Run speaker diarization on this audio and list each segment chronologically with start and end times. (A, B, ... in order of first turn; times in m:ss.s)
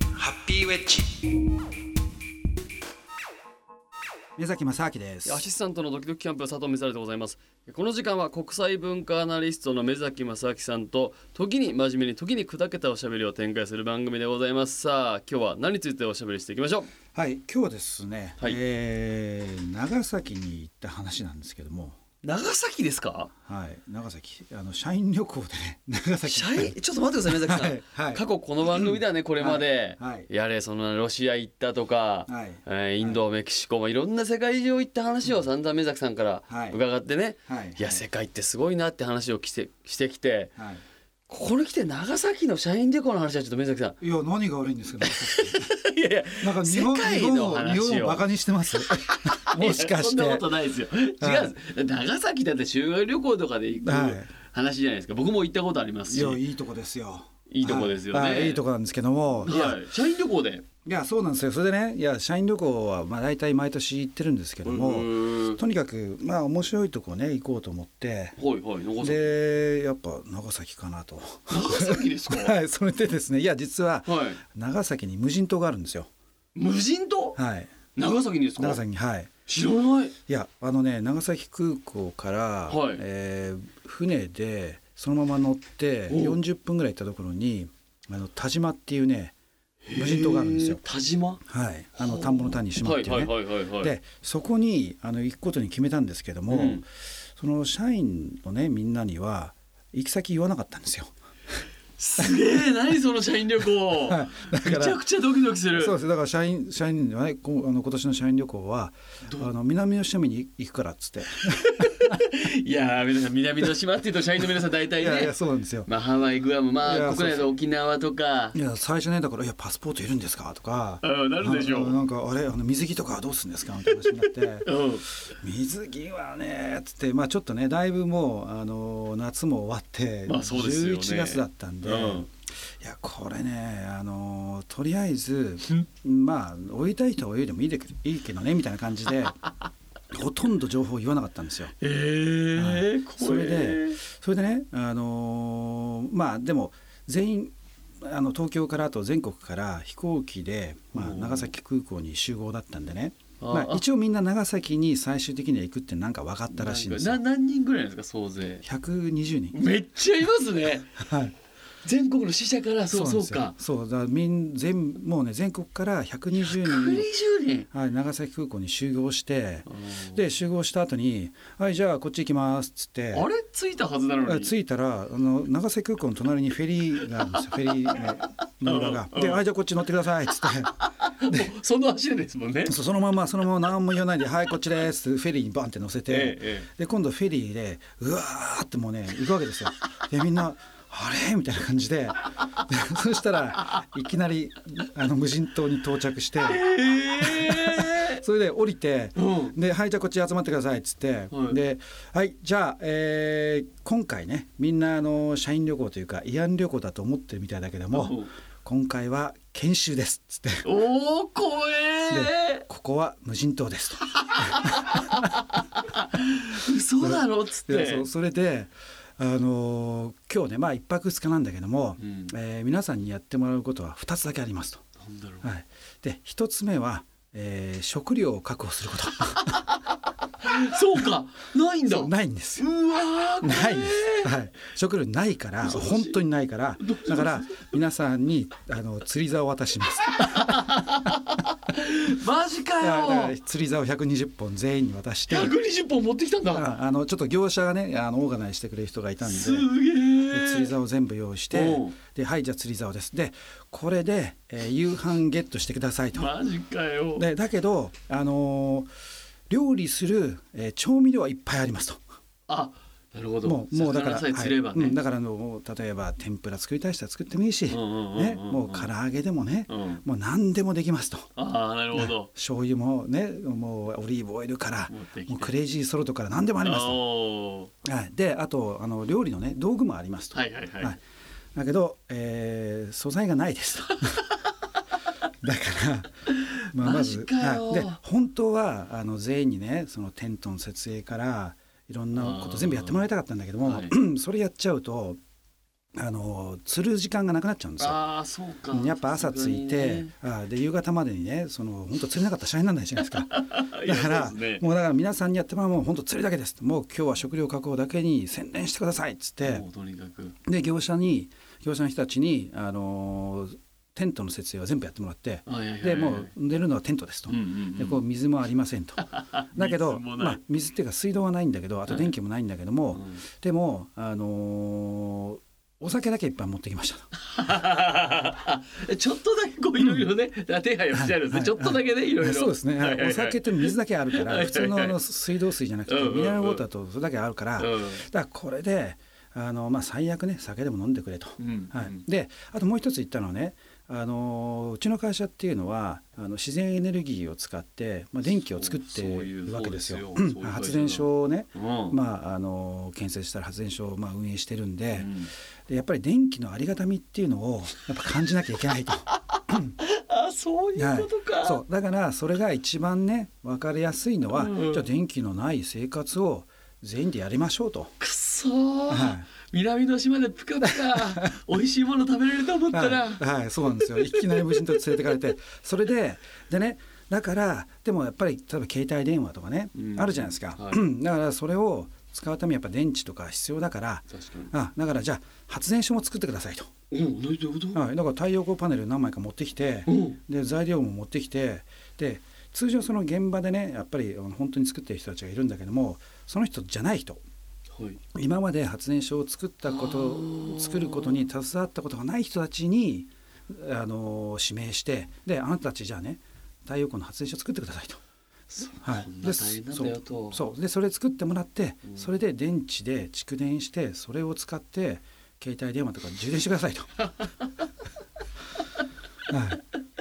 0:00.1-0:01.2 A
0:04.4-0:05.4 A
0:05.2-0:16.9 B
0:17.1-0:22.0 A
0:22.2-0:23.3 B
0:23.5-0:26.7 A
0:26.3-0:40.5 B
0:27.3-0:30.3 A
0:32.3-0:33.2 A
0:36.5-0:36.8 A
0:37.5-0:38.0 A
0:40.6-0:40.8 A
0:41.3-0:44.0 B
0:44.0-0:45.7 A
0:45.0-0:48.2 B
0:46.4-0:50.5 A
0:48.9-0:56.4 B
0:51.2-0:51.5 A
0:53.8-0:54.3 A
0:56.1-0:59.8 A
0:57.5-0:58.6 B
0:59.4-1:00.7 B
1:00.8-1:08.4 A
1:04.6-1:05.6 B
1:08.4-1:09.3 B
1:09.0-1:16.1 A
1:11.5-1:12.6 B
1:14.0-1:14.4 B
1:16.6-1:17.4 B
1:17.4-1:17.8 A
1:17.9-1:18.8 B
1:18.6-1:19.3 A
1:19.5-1:20.2 B
1:20.3-1:29.3 A
1:22.7-1:23.0 B
1:26.1-1:26.4 B
1:29.9-1:31.4 B
1:29.9-1:30.8 A
1:31.4-1:36.9 A
1:32.0-1:33.9 B
1:36.5-1:36.8 B
1:37.4-1:41.1 A
1:42.0-1:46.0 B
1:42.2-1:42.6 A
1:44.0-1:45.0 A
1:45.7-1:51.9 A
1:51.6-1:55.3 B
1:54.9-1:55.9 A
1:55.9-1:58.6 B
1:56.8-1:57.5 A
1:58.5-2:04.7 A
2:01.0-2:02.0 B
2:03.9-2:05.1 B
2:05.3-2:19.4 A
2:10.3-2:12.3 B
2:20.1-2:21.7 A
2:21.8-2:24.0 B
2:22.5-2:37.2 A
2:30.9-2:31.5 B
2:33.4-2:33.8 B
2:36.5-2:38.6 B
2:38.6-2:39.6 A
2:39.5-2:40.9 B
2:41.0-2:41.3 A
2:41.8-2:43.5 B
2:42.9-2:47.1 A
2:46.4-2:47.7 B
2:47.7-2:53.3 A
2:49.7-2:50.2 B
2:53.1-2:54.5 B
2:54.2-3:00.7 A
2:58.6-2:59.4 B
3:00.4-3:02.8 B
3:02.6-3:16.6 A
3:06.1-3:06.7 B
3:16.4-3:18.2 B
3:17.2-3:30.7 A
3:19.2-3:19.5 B
3:21.3-3:21.6 B
3:27.9-3:28.3 B
3:30.6-3:32.6 B
3:32.1-3:35.2 A
3:34.2-3:38.1 B
3:37.0-3:44.8 A
3:42.0-3:42.3 B
3:45.0-3:45.5 B
3:45.4-3:49.6 A
3:50.4-3:54.3 B
3:51.8-3:52.7 A
3:53.4-4:00.7 A
3:55.6-3:56.2 B
3:56.8-3:57.7 B
4:00.2-4:03.4 B
4:02.8-4:05.5 A
4:05.3-4:06.7 B
4:06.5-4:16.3 A
4:09.2-4:10.7 B
4:11.5-4:11.9 B
4:16.1-4:17.3 B
4:17.1-4:18.9 A
4:19.5-4:22.0 A
4:22.5-4:25.0 B
4:23.4-4:31.3 A
4:27.7-4:28.9 B
4:29.7-4:30.0 B
4:31.4-4:32.3 B
4:31.9-4:37.0 A
4:34.9-4:35.5 B
4:36.6-4:37.7 B
4:37.8-4:41.0 A
4:40.3-4:41.0 B
4:41.6-4:44.2 A
4:45.4-4:46.1 A
4:46.3-4:48.0 B
4:46.7-4:55.2 A
4:52.1-4:53.1 B
4:53.6-4:53.9 B
4:56.0-4:58.0 A
4:57.8-5:00.1 B
4:58.7-5:09.6 A
5:03.0-5:04.6 B
5:09.4-5:10.4 B
5:10.4-5:27.1 A
5:15.5-5:16.3 B
5:17.3-5:18.0 B
5:19.0-5:20.4 B
5:22.9-5:23.2 B
5:27.2-5:35.0 B
5:30.9-5:55.1 A
5:35.9-5:36.6 B
5:37.6-5:38.1 B
5:41.4-5:42.0 B
5:48.5-5:52.0 B
5:54.9-5:55.3 B
5:55.7-5:59.7 A
5:59.3-6:01.6 B
6:00.8-6:07.9 A
6:04.3-6:04.9 B
6:08.0-6:15.2 B
6:08.9-6:09.3 A
6:10.6-6:11.3 A
6:12.7-6:26.7 A
6:19.8-6:20.8 B
6:24.1-6:24.5 B
6:26.9-6:27.8 B
6:27.7-6:37.2 A
6:29.9-6:30.2 B
6:38.1-6:48.0 A
6:39.7-6:41.2 B
6:48.5-6:50.4 B
6:48.8-6:56.9 A
6:57.1-6:57.6 B
6:59.3-6:59.6 A